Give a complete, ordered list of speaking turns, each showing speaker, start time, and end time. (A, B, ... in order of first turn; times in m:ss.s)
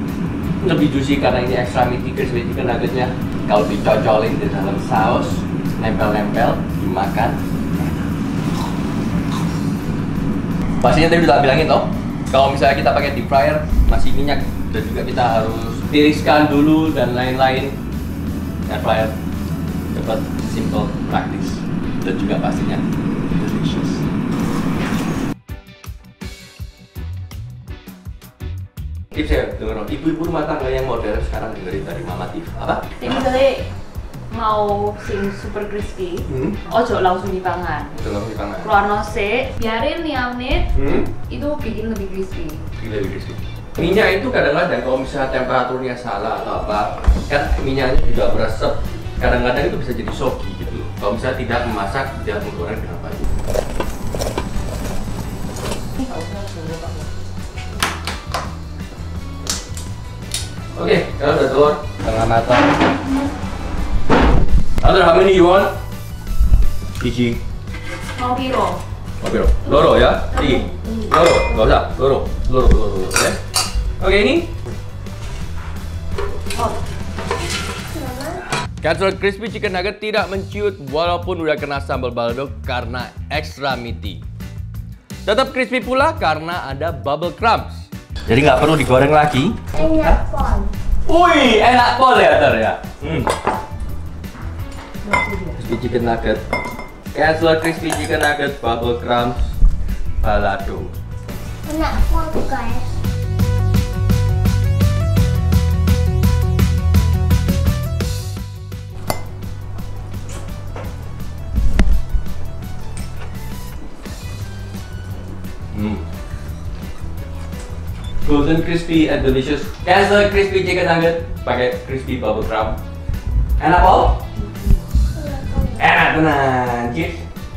0:00.6-0:08.0 A
0:10.8-0:17.7 A
0:18.7-0:19.1 A
0:19.9-0:24.0 A
0:29.1-0:32.8 A
0:33.0-0:33.7 B
0:34.3-0:38.0 B
0:36.3-0:36.6 A
0:38.0-0:38.7 A
0:38.6-0:40.7 B
0:40.7-0:41.1 A
0:41.3-0:42.6 B
0:42.8-0:53.3 A
0:56.0-0:56.9 B
1:00.7-1:02.8 A
1:04.8-1:05.7 A
1:07.0-1:07.4 A
1:08.2-1:08.8 B
1:09.2-1:13.4 A
1:10.2-1:11.0 B
1:14.0-1:14.5 A
1:17.9-1:18.4 C
1:18.8-1:24.2 A
1:25.2-1:30.2 A
1:29.7-1:30.7 C
1:31.0-1:33.3 A
1:35.5-1:36.4 A
1:37.1-1:39.5 A
1:40.2-1:40.9 A
1:41.6-1:42.9 C
1:55.7-1:56.0 A
1:58.2-2:02.8 A
2:03.6-2:04.2 A
2:05.1-2:05.8 C
2:05.8-2:07.2 A